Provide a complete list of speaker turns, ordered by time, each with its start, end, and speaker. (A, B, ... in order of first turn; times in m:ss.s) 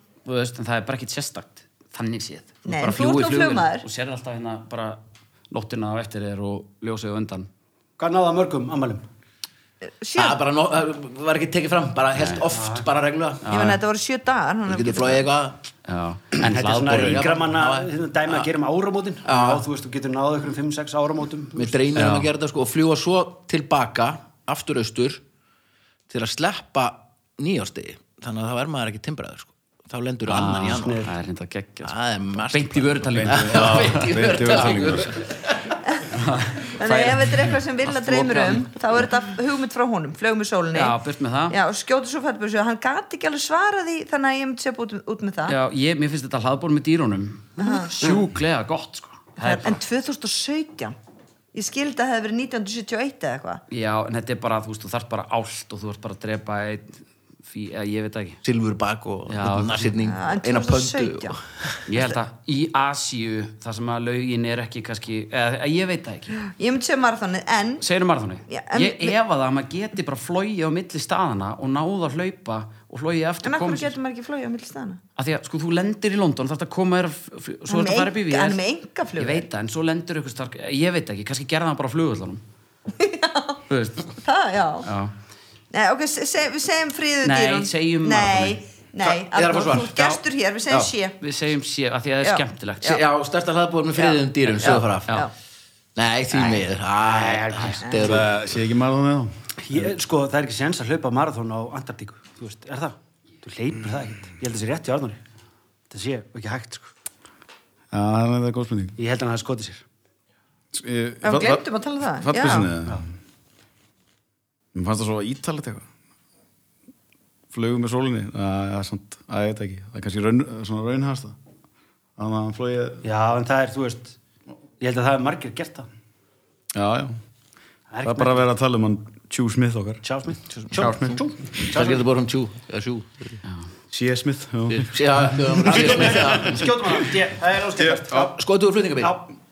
0:00.2-0:05.0 A
0:02.6-0:03.8 B
0:05.5-0:07.5 A
0:08.0-0:09.0 C
0:09.8-0:10.4 B
0:10.1-0:13.4 D
0:12.2-0:12.4 A
0:12.5-0:12.8 C
0:13.4-0:13.8 A
0:13.5-0:15.3 B
0:14.7-0:15.6 D
0:15.9-0:17.4 A
0:16.4-0:21.8 C
0:16.9-0:18.5 D
0:19.2-0:19.6 D
0:21.5-0:25.2 D
0:22.0-0:22.3 A
0:26.1-0:31.1 D
0:30.2-0:34.1 A
0:30.7-0:31.1 C
0:31.8-0:35.8 D
0:33.1-0:35.2 E
0:36.1-0:38.7 A
0:36.8-0:41.0 B
0:40.7-0:41.6 A
0:41.5-0:45.6 B
0:45.5-0:49.8 A
0:47.6-0:48.2 B
0:49.4-0:51.0 B
0:51.5-0:53.6 B
0:53.7-0:58.4 A
0:58.4-1:01.8 D
0:59.3-1:00.0 A
1:00.0-1:01.4 B
1:01.8-1:06.4 A
1:06.4-1:07.8 B
1:07.8-1:13.9 A
1:08.5-1:09.2 B
1:13.4-1:15.0 B
1:15.2-1:18.6 A
1:17.7-1:19.4 B
1:19.2-1:22.4 A
1:22.9-1:23.6 B
1:23.7-1:24.1 A
1:24.1-1:24.9 B
1:24.8-1:25.1 A
1:25.7-1:31.2 B
1:27.2-1:28.6 A
1:29.0-1:30.0 D
1:31.2-1:33.0 A
1:32.2-1:33.0 B
1:32.8-1:35.2 D
1:34.0-1:35.3 B
1:36.0-1:38.4 D
1:37.0-1:37.9 C
1:38.0-1:39.9 E
1:39.6-1:45.2 C
1:45.9-1:46.9 C
1:47.9-1:49.0 E
1:49.0-1:49.8 C
1:50.7-1:53.0 E
1:51.2-1:52.7 B
1:54.7-1:55.8 E
1:57.5-2:01.4 E
2:02.2-2:03.0 E
2:03.0-2:04.2 C
2:04.8-2:05.9 C
2:06.7-2:07.2 E
2:07.9-2:08.4 C
2:08.0-2:10.0 E
2:10.0-2:12.0 C
2:10.6-2:11.2 D
2:10.8-2:11.6 E
2:11.7-2:13.4 D
2:13.9-2:16.6 E
2:14.7-2:16.6 D
2:15.7-2:18.4 C
2:17.8-2:18.0 E
2:18.1-2:19.2 D
2:19.0-2:19.2 C